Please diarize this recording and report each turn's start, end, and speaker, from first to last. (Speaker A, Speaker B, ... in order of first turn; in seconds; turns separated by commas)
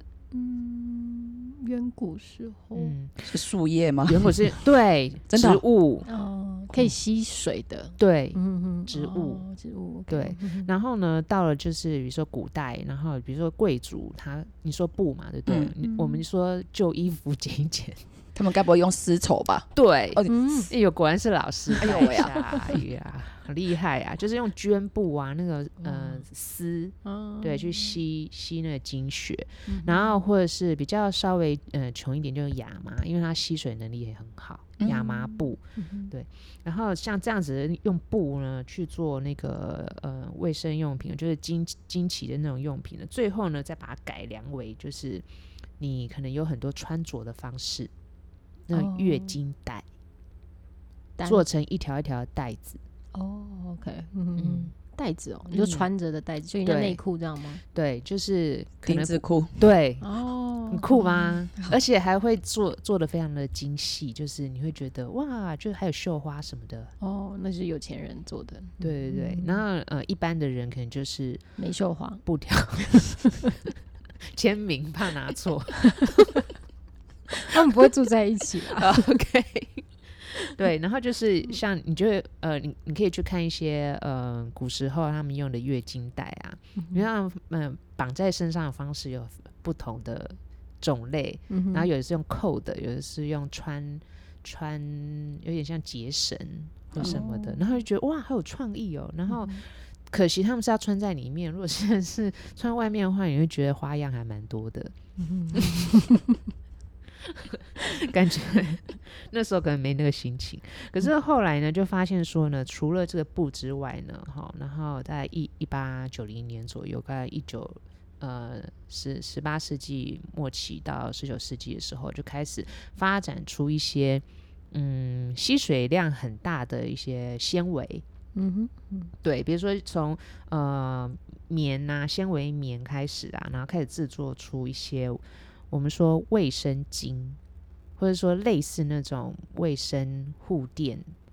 Speaker A: 0.3-3.0, Speaker B: 2.8-3.4, Speaker C: 3.2-4.6, Speaker B: 4.1-6.1, Speaker C: 5.3-5.6, Speaker A: 6.0-10.7, Speaker B: 8.0-9.4, Speaker B: 10.1-18.0, Speaker C: 15.4-15.7, Speaker A: 15.8-16.2, Speaker C: 18.4-20.4, Speaker B: 19.8-45.2, Speaker A: 20.3-20.7, Speaker A: 21.8-22.2, Speaker C: 21.8-22.4, Speaker A: 25.8-26.2, Speaker A: 27.0-28.0, Speaker A: 29.7-30.2, Speaker C: 34.8-35.2, Speaker A: 35.8-36.1, Speaker B: 45.8-47.9, Speaker B: 48.7-49.9, Speaker A: 48.7-49.4, Speaker A: 51.2-51.5, Speaker B: 51.2-52.8, Speaker A: 53.1-57.6, Speaker B: 54.4-54.7, Speaker B: 55.5-55.9, Speaker B: 56.6-57.0, Speaker B: 57.7-60.1, Speaker C: 58.9-59.6, Speaker A: 60.0-61.8, Speaker B: 60.7-66.9, Speaker A: 67.0-69.6, Speaker B: 68.8-71.4, Speaker A: 71.6-72.2, Speaker B: 72.2-73.4, Speaker A: 72.8-73.2, Speaker B: 74.3-76.4, Speaker A: 77.4-79.1, Speaker B: 78.7-104.9, Speaker A: 86.8-87.0, Speaker A: 91.5-91.9, Speaker A: 97.0-97.8, Speaker A: 99.3-99.6, Speaker A: 105.2-106.3, Speaker B: 105.5-105.9, Speaker B: 107.2-128.0, Speaker A: 128.3-129.1, Speaker B: 129.2-137.4, Speaker B: 138.0-141.1